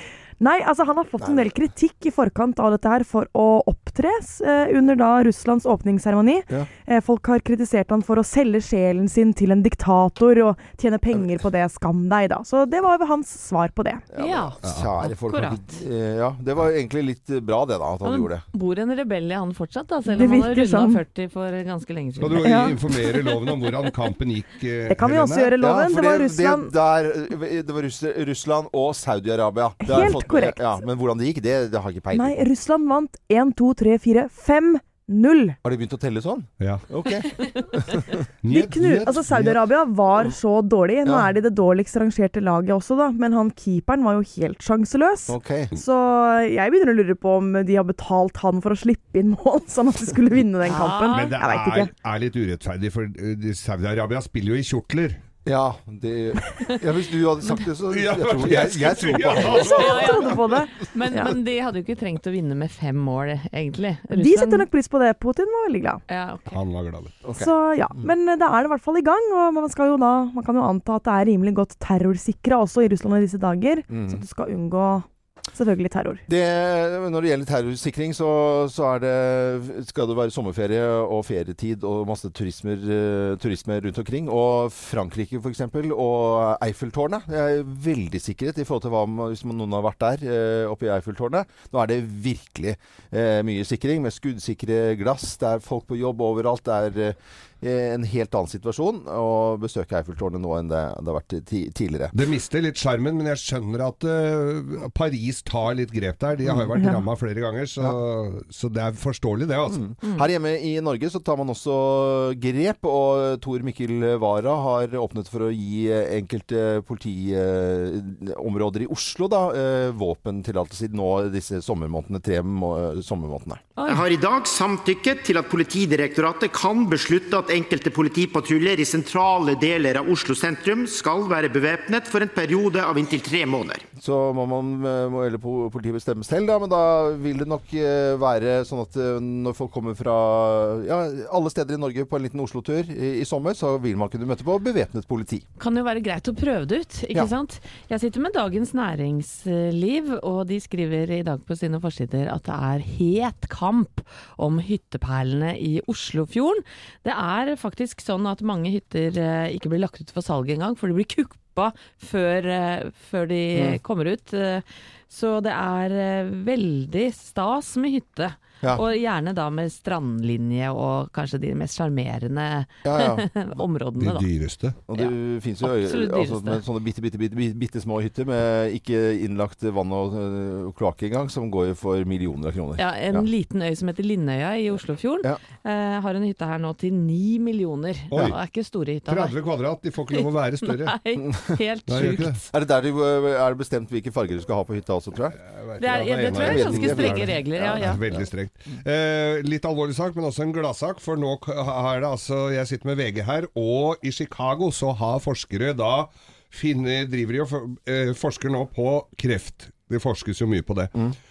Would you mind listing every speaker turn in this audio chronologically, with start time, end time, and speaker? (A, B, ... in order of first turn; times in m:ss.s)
0:00.4-0:14.0 A
0:01.2-0:01.5 B
0:14.1-0:18.4 B
0:14.2-0:15.8 C
0:14.6-0:14.9 D
0:18.0-0:22.5 C
0:20.0-0:21.0 A
0:22.2-0:25.5 D
0:22.4-0:23.2 A
0:24.9-0:26.7 A
0:25.6-0:32.4 B
0:29.8-0:30.6 A
0:32.1-0:35.6 A
0:35.6-0:38.2 B
0:38.4-0:39.6 D
0:38.5-0:51.9 A
0:41.0-0:41.3 B
0:45.3-0:45.7 B
0:50.6-0:51.3 C
0:51.1-0:55.2 D
0:55.4-1:00.2 B
0:57.9-1:00.3 D
0:59.4-1:01.3 A
0:59.7-1:04.7 C
1:04.1-1:06.0 A
1:06.1-1:06.6 C
1:06.5-1:07.2 D
1:07.2-1:08.1 B
1:07.4-1:16.2 A
1:13.9-1:14.2 B
1:16.3-1:42.1 B
1:42.1-1:49.8 D
1:49.7-2:03.6 B
2:03.8-2:04.0 C
2:03.8-2:13.8 E
2:14.0-2:25.4 B
2:25.6-2:54.3 C
2:43.5-2:43.8 B
2:52.8-2:53.2 B
2:54.0-2:54.8 D
2:54.9-3:03.3 B
2:54.9-2:56.6 C
3:02.8-3:09.3 C
3:08.1-3:08.4 D
3:09.1-3:11.0 D
3:10.1-3:12.5 C
3:11.2-3:15.4 B
3:11.9-3:12.4 D
3:15.4-3:30.9 D
3:15.8-3:18.0 C
3:16.2-3:18.2 B